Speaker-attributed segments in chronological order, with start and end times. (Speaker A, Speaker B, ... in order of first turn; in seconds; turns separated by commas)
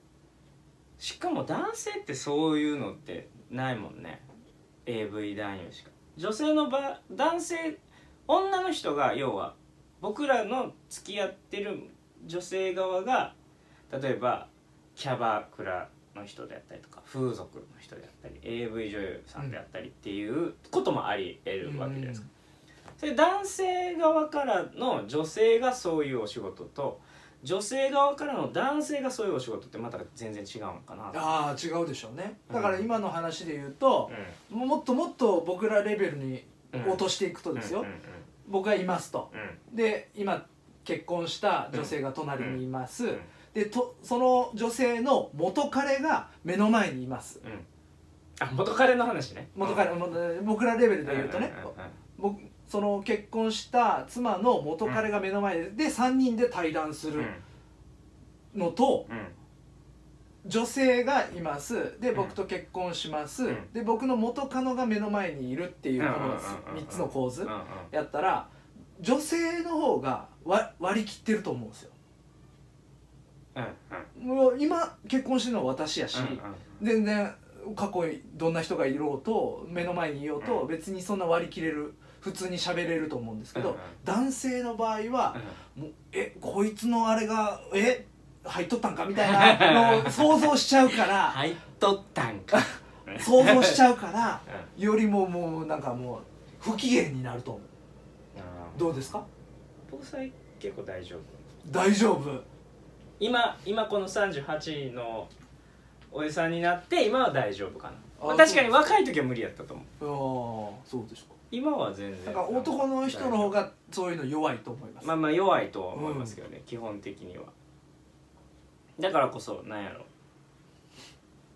Speaker A: 1.0-4.3, Speaker A: 4.9-13.3, Speaker A: 13.9-22.2, Speaker B: 21.6-22.3, Speaker A: 23.0-31.4, Speaker B: 31.1-37.9, Speaker A: 32.5-32.9, Speaker A: 34.1-34.4, Speaker A: 36.7-38.3, Speaker B: 38.5-47.4, Speaker A: 39.3-39.6, Speaker A: 41.7-43.3, Speaker A: 47.4-47.7, Speaker A: 48.4-50.0, Speaker B: 49.5-57.3, Speaker A: 51.0-52.0, Speaker A: 57.1-57.4, Speaker B: 58.5-59.1, Speaker A: 59.1-59.4, Speaker B: 60.4-71.9, Speaker A: 66.0-67.9, Speaker A: 73.5-74.1, Speaker B: 74.2-91.4, Speaker A: 76.1-76.7, Speaker A: 80.4-80.7, Speaker A: 83.6-83.9, Speaker A: 89.2-93.8, Speaker B: 92.5-97.7, Speaker A: 98.3-98.9, Speaker B: 98.7-99.2, Speaker A: 99.9-101.4, Speaker B: 101.7-102.5, Speaker A: 103.2-105.3, Speaker A: 106.1-109.9, Speaker B: 108.2-108.7, Speaker B: 110.0-111.4, Speaker A: 111.5-113.5, Speaker B: 112.2-115.1, Speaker A: 115.0-117.5, Speaker B: 115.9-116.4, Speaker A: 119.0-120.1